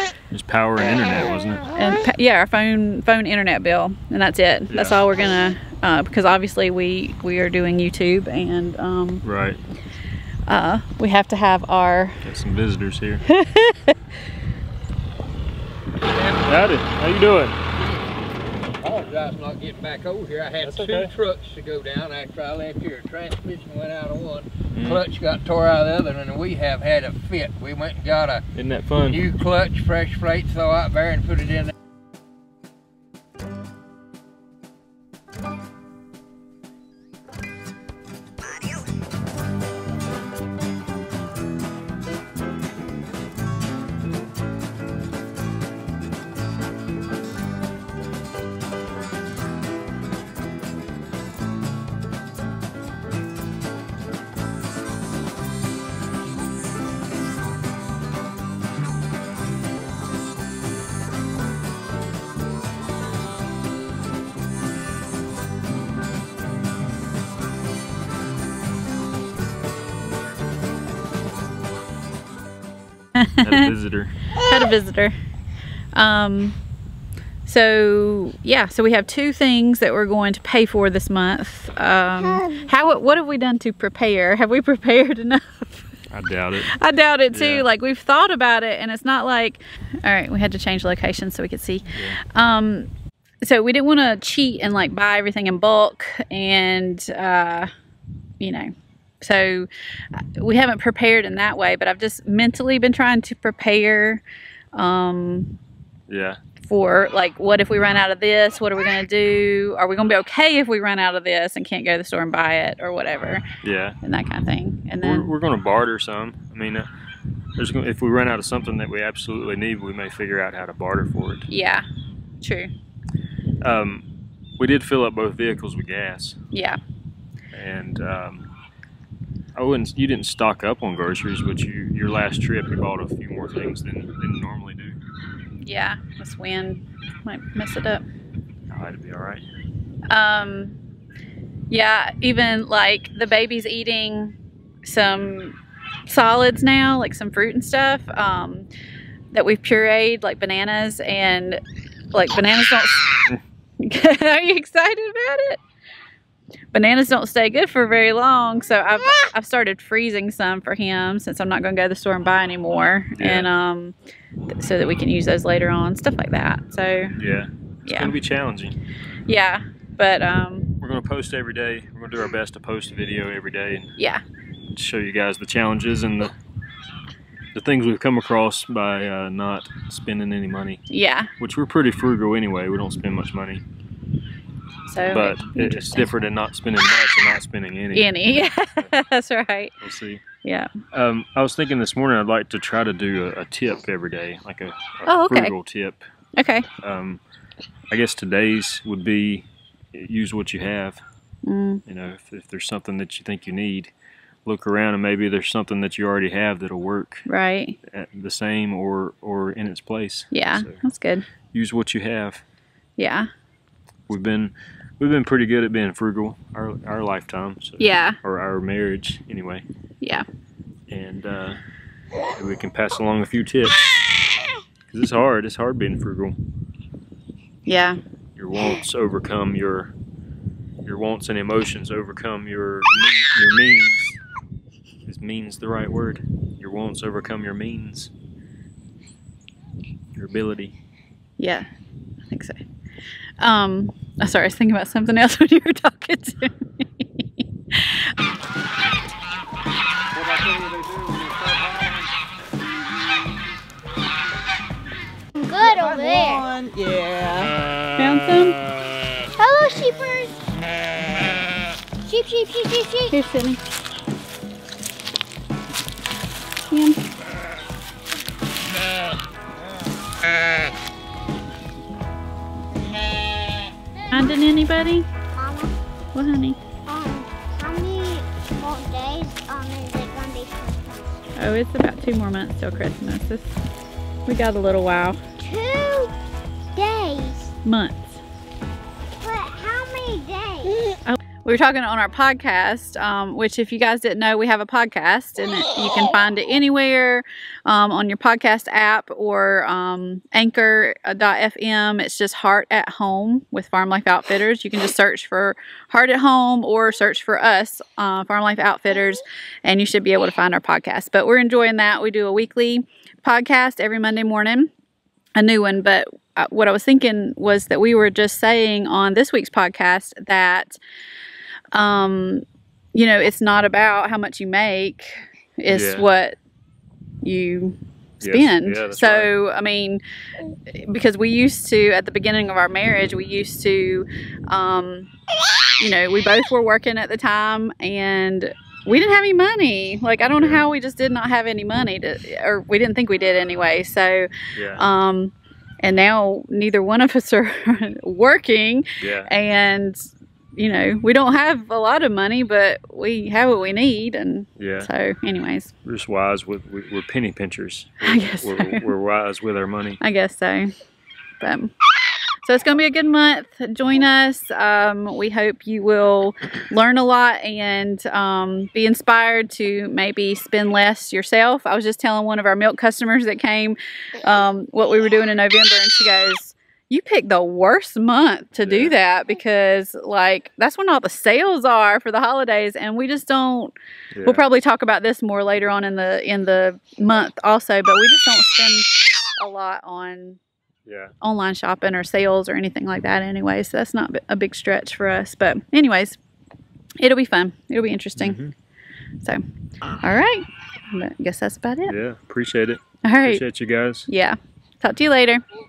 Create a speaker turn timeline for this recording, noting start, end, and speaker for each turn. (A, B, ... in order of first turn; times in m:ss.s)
0:00.3-0:01.7 A
0:01.7-0:09.2 B
0:04.7-0:05.0 A
0:09.2-0:09.6 A
0:10.5-0:12.2 B
0:12.2-0:13.2 A
0:13.3-0:14.0 B
0:16.1-0:16.4 C
0:16.4-0:17.6 A
0:18.8-0:28.4 C
0:20.6-0:21.1 A
0:24.7-0:25.0 A
0:28.5-0:29.2 A
0:29.1-0:31.7 C
1:13.2-1:13.7 B
1:13.4-1:14.2 A
1:14.3-1:15.1 B
1:15.9-1:16.6 B
1:17.4-1:26.0 B
1:26.1-1:26.8 A
1:26.7-1:32.9 B
1:27.3-1:27.6 A
1:31.9-1:32.2 A
1:33.4-1:37.7 B
1:38.4-1:44.2 B
1:44.7-1:45.6 B
1:46.1-1:46.4 A
1:46.6-1:53.4 B
1:53.6-1:54.0 A
1:54.0-1:55.3 B
1:55.0-1:56.9 A
1:57.6-2:01.5 A
2:01.5-2:01.8 B
2:02.4-2:02.7 B
2:03.6-2:06.4 A
2:06.5-2:06.8 B
2:07.5-2:08.5 A
2:09.5-2:15.0 A
2:15.6-2:18.0 B
2:18.7-2:19.4 A
2:20.1-2:20.8 B
2:21.7-2:28.7 B
2:29.3-2:31.6 B
2:32.1-2:35.6 B
2:36.7-2:43.9 B
2:43.1-2:43.5 A
2:44.5-2:47.2 B
2:47.2-2:48.8 A
2:47.8-2:48.1 B
2:49.2-2:50.7 B
2:50.8-2:54.0 A
2:54.0-2:54.2 B
2:54.7-2:56.4 A
2:57.5-3:00.8 A
3:00.9-3:01.3 B
3:01.4-3:03.6 A
3:04.8-3:06.1 B
3:05.0-3:08.9 A
3:07.9-3:09.7 B
3:09.8-3:10.2 A
3:10.4-3:10.7 B
3:10.9-3:16.0 A
3:15.0-3:15.5 B
3:16.4-3:16.7 B
3:16.7-3:17.2 A
3:17.9-3:21.0 A
3:21.4-3:21.8 B
3:21.9-3:23.9 A
3:24.4-3:27.3 A
3:27.3-3:27.8 B
3:27.9-3:30.8 A
3:30.3-3:31.2 B
3:31.5-3:32.4 A
3:33.0-3:33.3 B
3:34.1-3:39.6 A
3:37.8-3:38.2 B
3:40.9-3:41.6 A
3:42.3-3:44.4 A
3:44.9-3:46.4 A
3:47.6-3:48.0 B
3:48.4-3:49.9 A
3:50.8-3:54.2 A
3:55.0-3:58.1 A
4:00.1-4:00.7 A
4:01.4-4:01.7 B
4:02.3-4:02.6 B
4:03.4-4:08.1 B
4:10.2-4:12.0 D
4:15.4-4:16.5 E
4:15.7-4:17.6 D
4:18.0-4:18.6 B
4:19.4-4:20.4 E
4:22.0-4:23.1 E
4:23.1-4:23.6 B
4:26.7-4:27.0 B
4:34.1-4:35.1 B
4:35.3-4:35.7 E
4:36.1-4:36.6 B
4:36.8-4:41.2 E
4:41.4-4:43.6 B
4:44.2-4:45.2 B
4:45.4-4:46.1 E
4:46.7-4:47.5 E
4:47.6-4:48.2 B
4:49.2-4:51.0 E
4:51.0-5:14.7 B
5:15.4-5:20.8 B
5:21.7-5:26.4 B
5:25.7-5:26.1 A
5:27.2-5:30.0 B
5:28.2-5:29.3 A
5:30.7-5:35.1 B
5:35.8-5:55.7 B
5:40.3-5:40.6 A
5:44.5-5:44.8 A
5:49.0-5:49.3 A
5:54.6-5:54.9 A
5:55.8-6:00.0 A
5:58.0-5:58.8 B
6:00.0-6:00.7 B
6:01.4-6:01.7 B
6:02.4-6:23.7 B
6:18.6-6:18.9 A
6:24.1-6:24.4 A
6:24.2-6:30.4 B
6:30.8-6:31.1 A
6:31.2-6:36.2 B
6:37.0-6:38.4 B
6:38.2-6:38.5 A
6:40.0-6:41.9 B
6:41.9-6:44.1 A
6:43.0-6:43.4 B
6:44.1-6:45.4 B